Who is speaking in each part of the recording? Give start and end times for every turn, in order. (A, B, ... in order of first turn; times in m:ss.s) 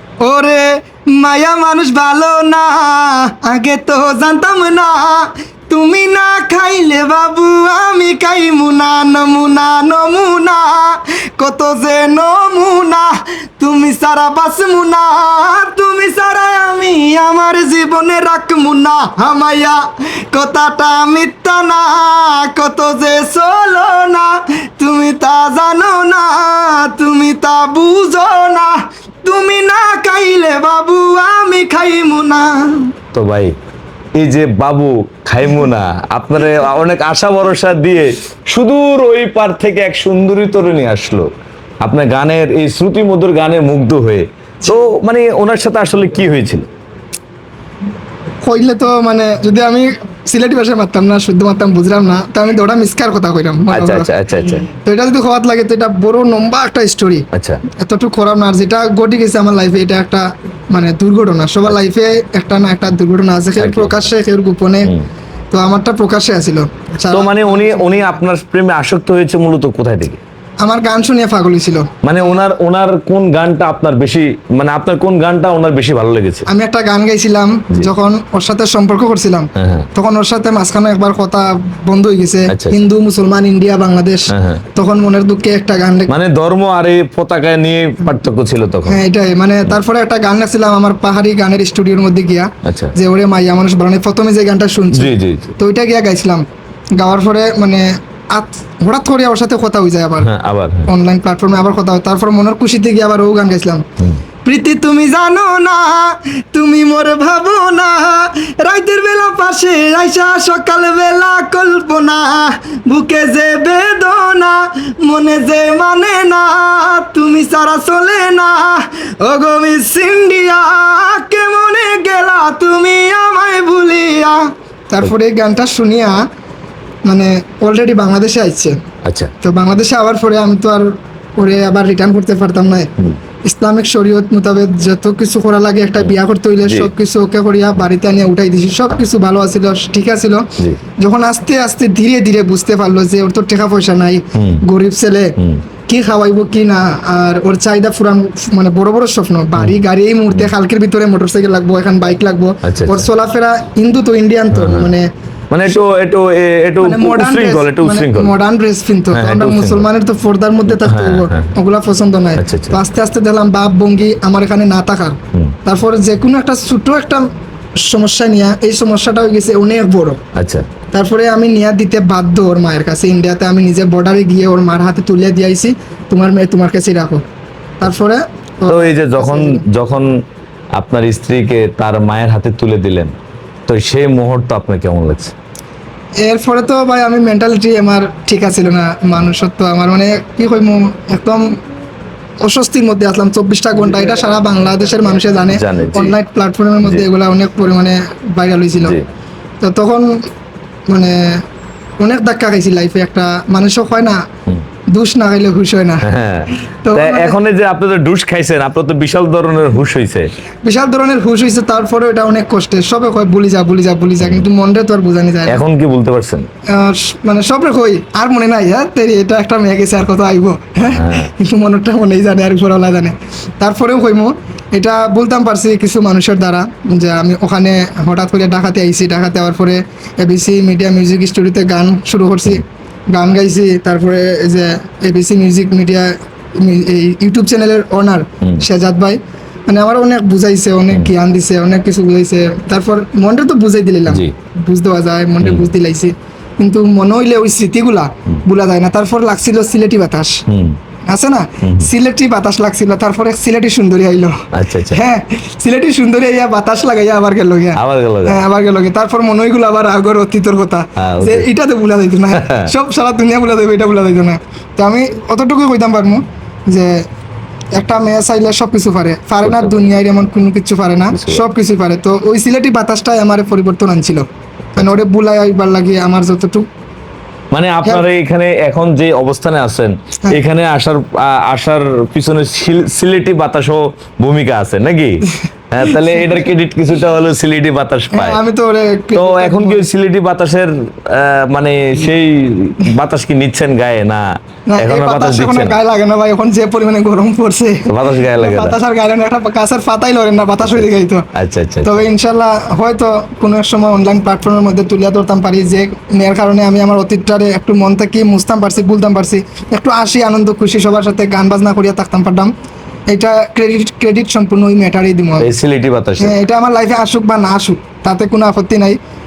0:00.2-0:19.8 A
0:20.3-0:28.7 A
0:29.2-0:32.9 A
0:33.1-0:33.5 B
0:34.2-0:41.3 B
0:41.8-0:46.6 B
0:48.4-0:57.2 A
0:53.7-0:54.7 B
0:57.3-0:57.6 B
0:57.8-1:05.0 A
1:03.6-1:03.9 B
1:05.5-1:08.1 A
1:07.1-1:10.2 B
1:10.6-1:11.9 A
1:12.0-1:16.5 B
1:16.5-1:26.1 A
1:19.6-1:19.9 B
1:22.5-1:22.8 B
1:24.3-1:24.6 B
1:26.1-1:29.0 B
1:28.9-1:36.4 A
1:32.6-1:32.9 B
1:34.9-1:35.5 B
1:37.0-1:40.3 A
1:40.2-1:40.9 B
1:40.9-1:43.8 A
1:44.4-2:06.2 A
2:07.1-2:08.8 A
2:09.0-2:09.3 B
2:09.4-2:12.9 A
2:13.5-2:20.4 A
2:16.6-2:16.9 B
2:21.0-2:25.3 A
2:24.3-2:24.6 B
2:25.9-2:35.1 A
2:32.6-2:33.0 B
2:34.5-2:34.9 B
2:35.5-2:38.3 B
2:36.8-2:47.2 A
2:39.1-2:39.8 B
2:40.8-2:41.5 B
2:42.4-2:42.8 B
2:47.9-2:50.2 A
2:50.4-2:50.7 B
2:50.9-2:57.2 A
2:57.8-2:59.6 A
2:58.7-3:00.1 B
3:00.8-3:03.1 B
3:03.7-3:05.3 B
3:06.2-3:11.4 A
3:12.4-3:19.0 A
3:15.5-3:16.1 B
3:19.6-3:20.1 A
3:20.9-3:21.4 A
3:22.0-3:24.2 A
3:24.9-3:26.0 A
3:26.0-3:30.3 B
3:26.8-3:27.4 A
3:30.6-3:35.6 A
3:35.5-3:36.5 B
3:36.7-3:56.1 A
3:40.8-3:41.3 B
3:56.6-4:10.4 A
4:05.4-4:05.7 B
4:10.5-4:10.8 B
4:11.1-4:14.4 A
4:11.6-4:11.9 B
4:14.5-4:15.0 B
4:14.9-4:27.0 A
4:17.8-4:18.4 B
4:21.0-4:21.5 B
4:22.3-4:22.7 B
4:27.7-4:36.6 A
4:29.4-4:29.8 B
4:31.1-4:31.4 B
4:37.5-4:48.4 B
4:48.1-4:49.9 A
4:49.1-4:54.2 B
4:54.7-5:01.2 A
4:54.8-4:55.8 B
4:57.9-4:58.8 B
5:00.6-5:02.1 B
5:01.8-5:12.5 A
5:13.1-5:15.5 A
5:15.4-5:16.3 B
5:16.2-5:19.0 A